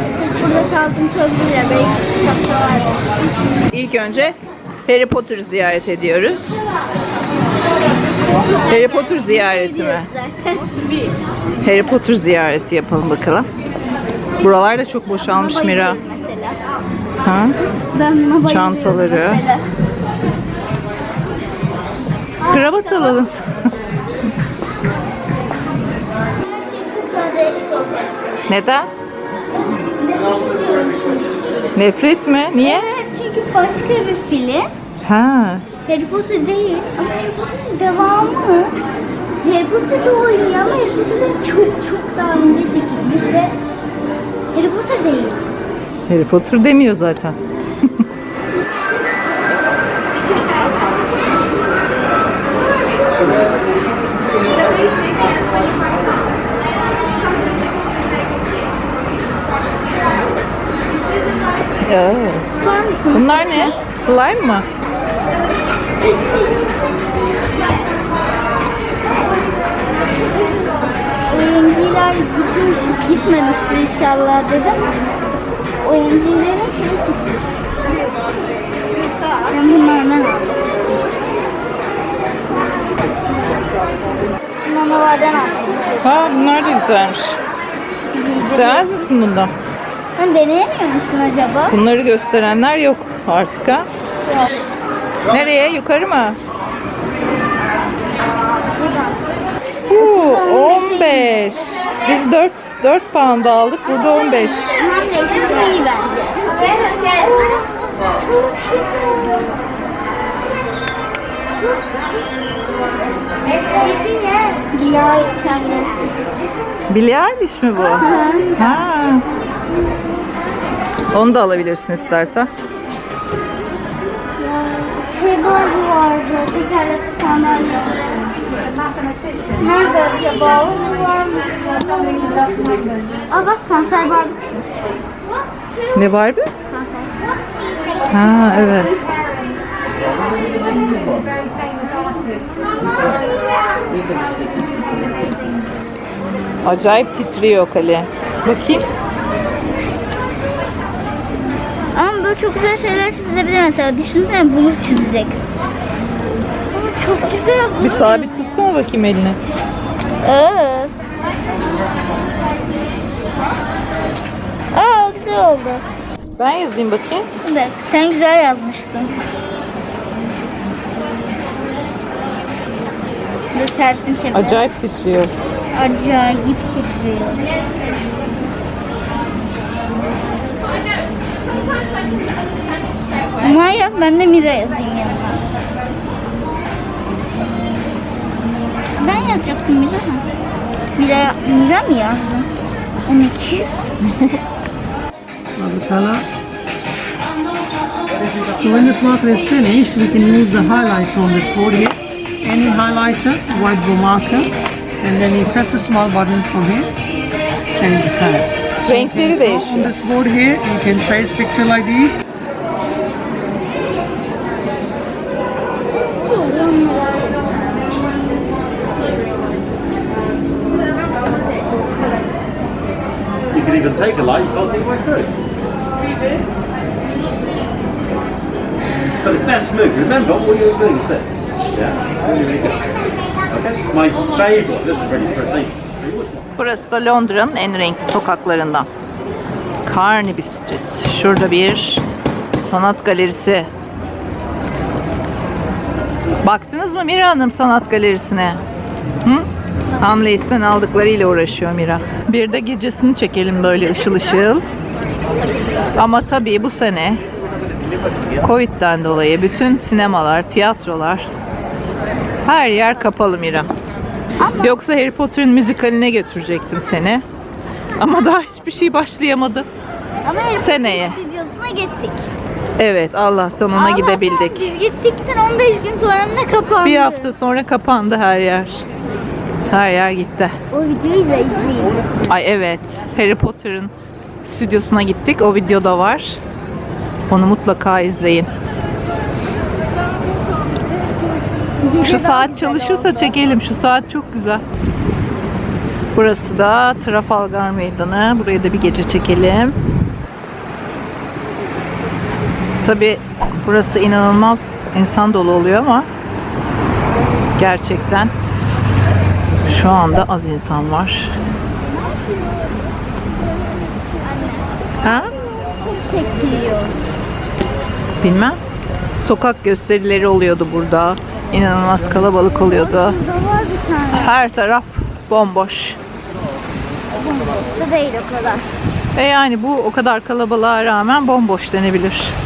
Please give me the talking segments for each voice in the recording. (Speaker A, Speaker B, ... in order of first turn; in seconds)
Speaker A: 0.1-3.6, 8.3-11.1, 15.2-16.7, 17.8-19.6, 22.4-23.2, 26.4-28.1, 29.5-31.4, 32.6-34.7, 35.9-38.8, 39.4-43.5, 44.5-45.5, 62.5-63.8, 71.3-75.0, 75.8-77.5, 79.3-80.6, 84.6-86.3, 88.1-89.1, 90.2-91.8, 94.3-94.5, 98.8-99.2, 99.9-101.5, 103.8-109.4, 113.6-116.1, 117.9-118.7, 124.4-128.5, 129.5-134.7, 136.7-138.0, 140.8-141.1, 141.6-143.2, 143.9-144.2, 151.9-155.4, 156.7-158.3, 160.2-160.9, 164.7-165.8, 167.4-169.2, 173.5-174.6, 175.7-177.4, 183.4-185.4, 189.0-190.3, 191.0-192.5, 193.1-193.8, 216.2-217.4, 264.4-264.7, 270.2-272.2, 273.7-277.3, 280.7-282.0, 291.8-293.3, 314.2-314.7, 315.5-317.0, 322.5-324.4, 327.1-328.6
Speaker B: 3.7-6.6, 8.7-10.1, 11.6-13.5, 14.4-16.0, 17.2-17.5, 18.4-19.4, 22.5-23.5, 28.5-28.9, 31.8-32.9, 35.0-35.6, 46.1-47.4, 61.8-62.5, 63.1-64.6, 86.0-87.4, 88.4-89.5, 91.7-93.9, 95.3-96.4, 99.9-104.8, 116.9-119.2, 121.1-122.5, 135.9-136.5, 138.1-139.0, 146.6-148.8, 157.8-159.4, 166.4-167.3, 174.3-175.3, 208.8-209.9, 236.6-238.9, 239.8-242.0, 242.6-243.7, 246.4-248.6, 250.0-254.6, 255.9-257.2, 258.4-261.3, 262.4-263.7, 264.6-267.2, 268.0-269.6, 270.6-271.2, 272.8-274.7, 276.8-278.8, 279.7-280.5, 282.3-283.9, 284.4-286.4, 287.3-288.5, 292.0-294.6, 296.1-299.8, 302.8-306.1, 307.6-308.3, 309.6-311.3, 315.0-315.3, 318.2-318.6, 319.2-323.2, 324.1-326.0, 329.1-332.3
Speaker C: 195.6-196.2, 198.6-206.9, 207.7-212.2
Speaker D: 223.6-225.3, 229.2-232.8, 233.5-235.9